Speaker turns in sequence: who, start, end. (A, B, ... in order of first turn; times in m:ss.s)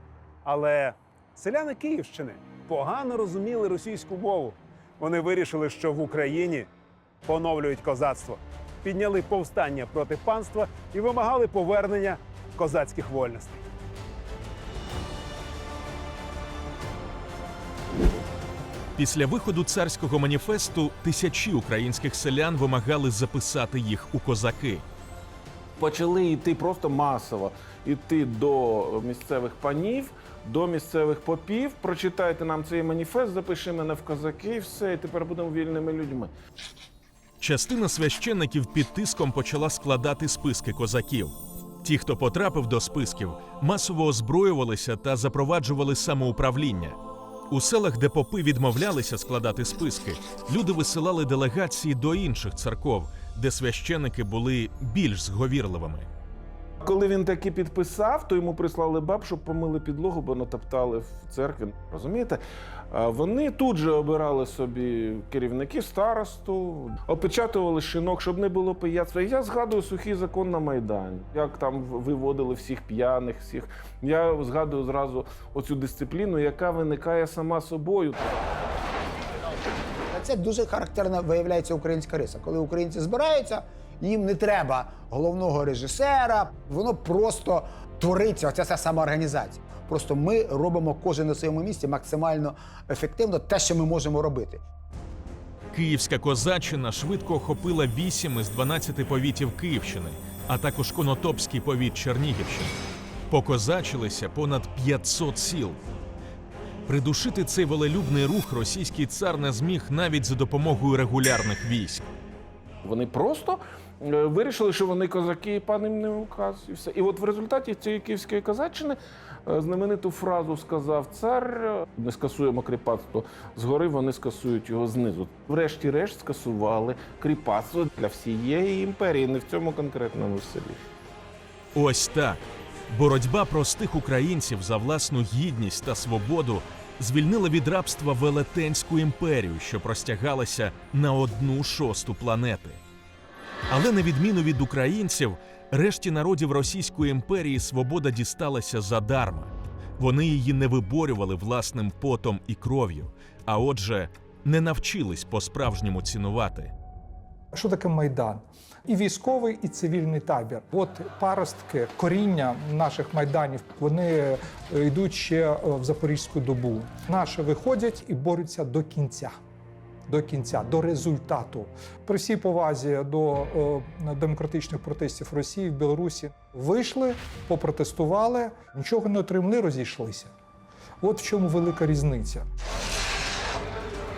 0:00.4-0:06.7 A
0:07.2-0:13.6 A
0:19.0-0:24.8 B
0:25.8-0:36.3 C
0:37.4-0:47.0 B
0:47.5-0:56.1 B
0:56.8-1:02.4 C
1:02.9-1:18.4 C
1:20.1-1:34.6 D
1:35.7-1:42.8 B
1:43.3-1:45.8 B
1:46.9-1:52.1 B
1:52.8-2:10.8 C
2:11.8-2:22.8 B
2:23.7-2:36.7 B
2:37.5-2:49.4 E
2:50.1-3:00.3 E
3:01.0-3:02.5 E